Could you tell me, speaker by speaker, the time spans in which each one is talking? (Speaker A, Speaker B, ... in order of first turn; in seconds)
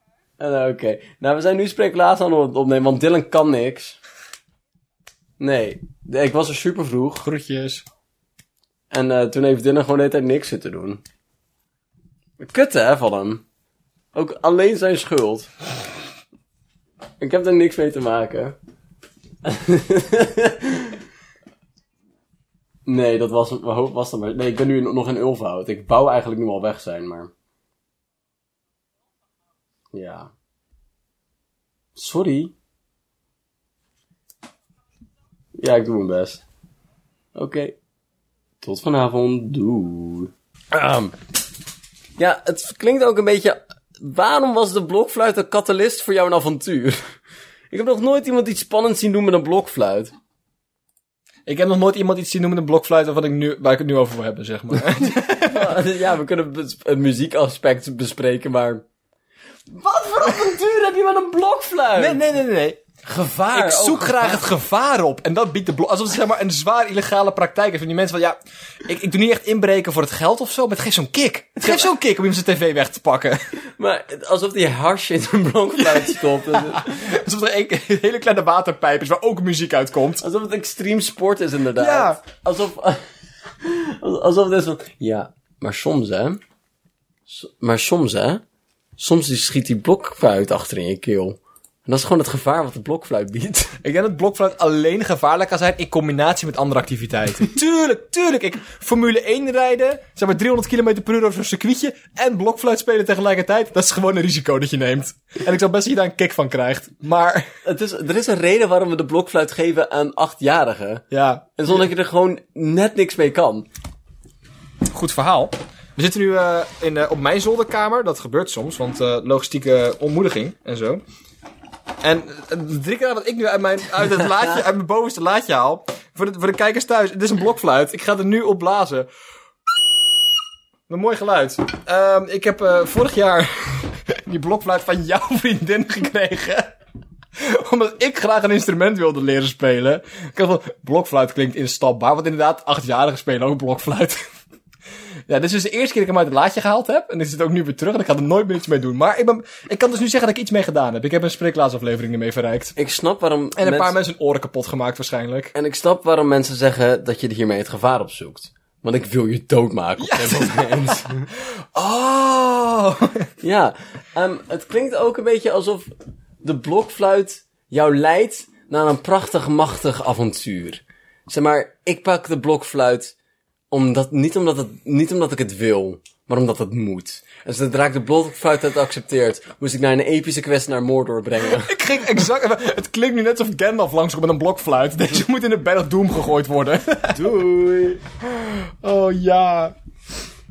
Speaker A: 0.4-4.0, 5.4-7.2, 8.9-11.0, 12.4-13.4, 14.1-15.5, 17.2-18.6, 19.4-20.9, 22.9-27.3, 29.9-30.3, 31.9-32.5, 35.6-36.4, 37.3-37.8, 38.6-41.2, 42.2-47.0, 47.7-50.1, 55.0-58.8, 59.7-62.2, 63.0-64.4, 73.8-76.9, 80.2-83.0, 83.6-86.4, 87.3-88.4, 89.0-93.8, 107.6-113.7, 152.8-153.9, 155.5-161.3, 163.4-165.9, 166.4-173.1, 173.7-181.8, 187.1-188.0
Speaker B: 7.2-7.8, 51.5-55.8, 62.0-62.8, 63.5-73.4, 75.8-80.2, 81.8-82.2, 93.8-107.5, 111.1-111.5, 114.9-121.0, 122.0-129.1, 130.9-136.7, 137.4-144.2, 145.3-152.7, 153.6-155.5, 160.0-163.3, 181.5-187.3, 188.2-189.7